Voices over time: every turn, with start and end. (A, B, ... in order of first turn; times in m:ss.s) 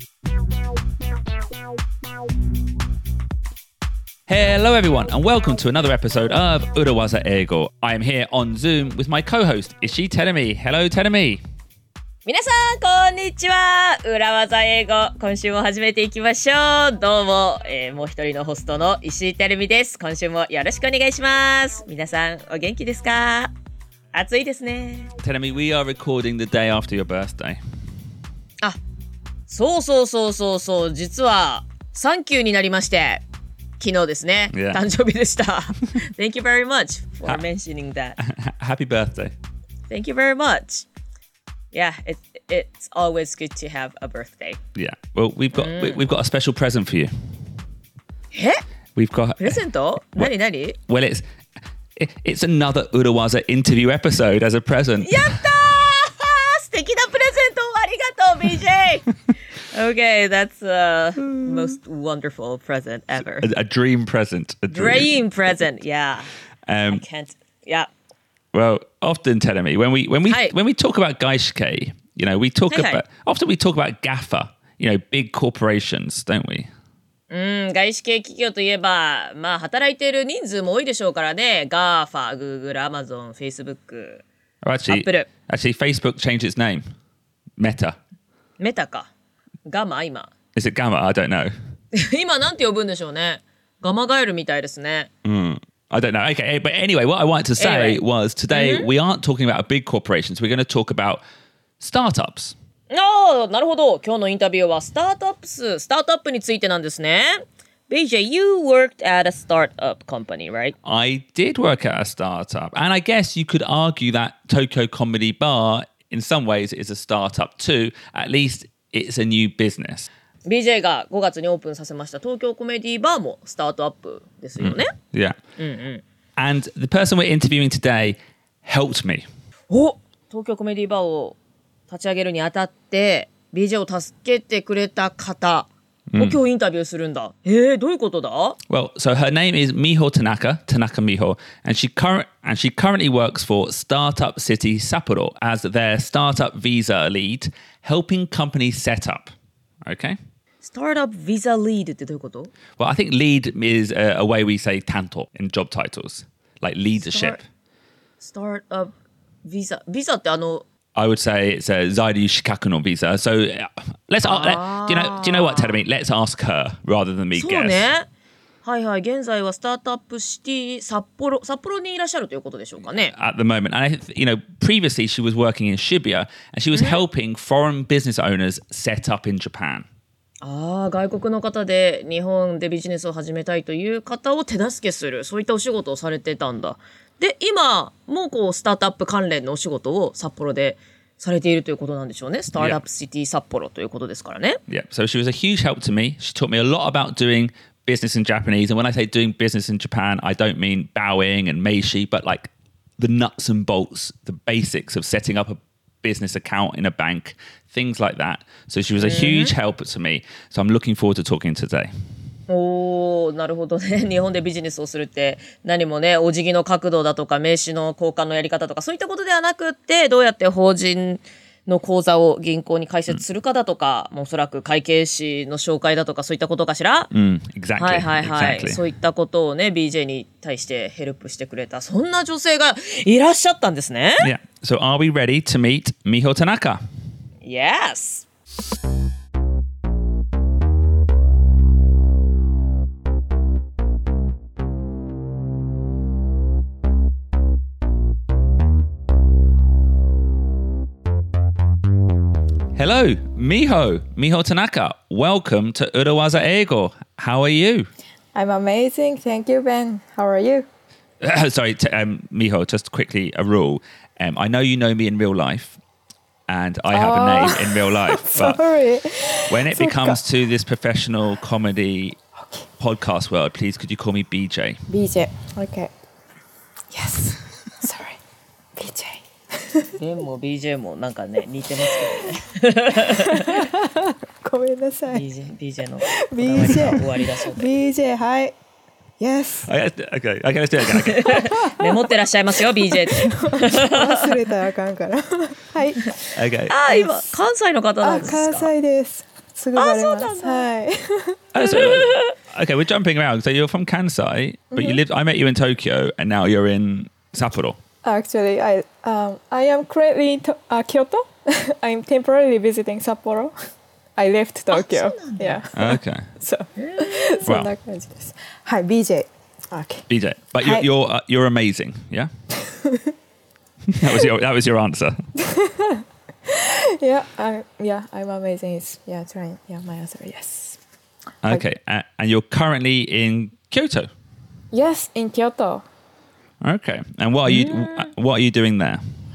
0:04.3-0:11.4 A
0:12.3-0:23.5 B
0:24.1-0:25.1 B
0:25.2-0:27.6 A
0:29.5-0:33.2 B
0:33.8-0:38.2 B
0:34.5-0:34.8 A
0:38.2-0:39.3 A
0:39.9-0:40.9 B
0:41.7-0:44.6 B
0:44.8-0:47.4 A
0:45.6-0:46.0 B
0:48.3-0:48.6 B
0:49.0-0:49.6 A
0:49.4-0:50.8 B
0:50.9-0:51.2 A
0:52.0-0:55.4 A
0:55.0-1:03.5 B
1:01.3-1:01.7 A
1:03.2-1:05.2 A
1:04.7-1:06.3 B
1:06.7-1:07.0 A
1:06.9-1:07.9 B
1:08.5-1:16.7 A
1:10.3-1:10.5 B
1:12.7-1:13.0 B
1:17.3-1:24.2 B
1:24.6-1:26.9 A
1:24.9-1:25.3 B
1:27.6-1:28.0 A
1:28.6-1:29.1 B
1:29.7-1:30.3 B
1:30.6-1:31.5 A
1:31.9-1:35.1 B
1:35.2-1:41.2 A
1:37.6-1:38.0 B
1:38.5-1:38.9 B
1:41.8-1:42.6 A
1:42.9-1:50.8 B
1:50.8-2:00.1 A
2:00.4-2:04.9 B
2:04.6-2:05.4 A
2:05.6-2:06.0 B
2:06.4-2:09.3 A
2:09.7-2:11.4 B
2:11.9-2:18.6 B
2:18.7-2:29.3 A
2:29.8-2:30.2 A
2:30.6-2:32.5 B
2:32.8-2:37.4 A
2:37.0-2:37.4 B
2:38.2-2:38.9 B
2:39.4-2:40.6 B
2:41.0-2:47.9 A
2:44.2-2:45.8 B
2:47.4-2:48.1 B
2:48.6-2:53.2 B
2:53.1-2:59.9 A
2:56.8-2:57.0 B
3:00.4-3:14.6 B
3:12.6-3:12.8 A
3:14.7-3:31.9 A
3:29.0-3:29.5 B
3:32.5-3:47.1 B
3:47.1-3:48.8 A
3:47.8-3:54.3 B
3:54.2-3:56.8 A
3:57.4-3:58.3 B
4:12.8-4:17.9 A
4:18.4-4:20.7 C
4:21.2-4:25.8 A
4:26.5-4:28.6 A
4:26.9-4:30.2 C
4:29.5-4:32.2 A
4:32.4-4:32.7 C
4:32.8-4:34.8 A
4:34.9-4:35.9 C
4:36.9-4:38.2 C
4:38.8-4:40.0 C
4:40.0-4:43.7 B
4:41.8-4:42.3 C
4:43.0-4:45.2 C
4:45.1-4:47.7 B
4:46.1-4:48.6 C
4:49.2-4:49.7 C
4:49.7-4:51.5 A
4:50.9-4:54.4 B
4:51.3-4:52.0 C
4:52.7-4:57.4 C
4:56.4-4:56.7 A
4:56.7-4:58.7 B
4:58.0-5:01.4 C
4:59.8-5:00.7 B
5:01.5-5:07.8 A
5:01.6-5:02.3 B
5:04.7-5:05.0 C
5:08.0-5:13.6 C
5:14.2-5:20.1 C
5:14.7-5:15.6 B
5:15.7-5:16.2 A
5:16.8-5:17.3 B
5:20.1-5:22.3 A
5:20.6-5:20.9 C
5:22.7-5:23.1 C
5:23.9-5:25.2 A
5:25.4-5:30.8 C
5:31.4-5:34.1 A
5:34.7-5:35.8 C
5:36.6-5:39.0 A
5:37.5-5:38.1 B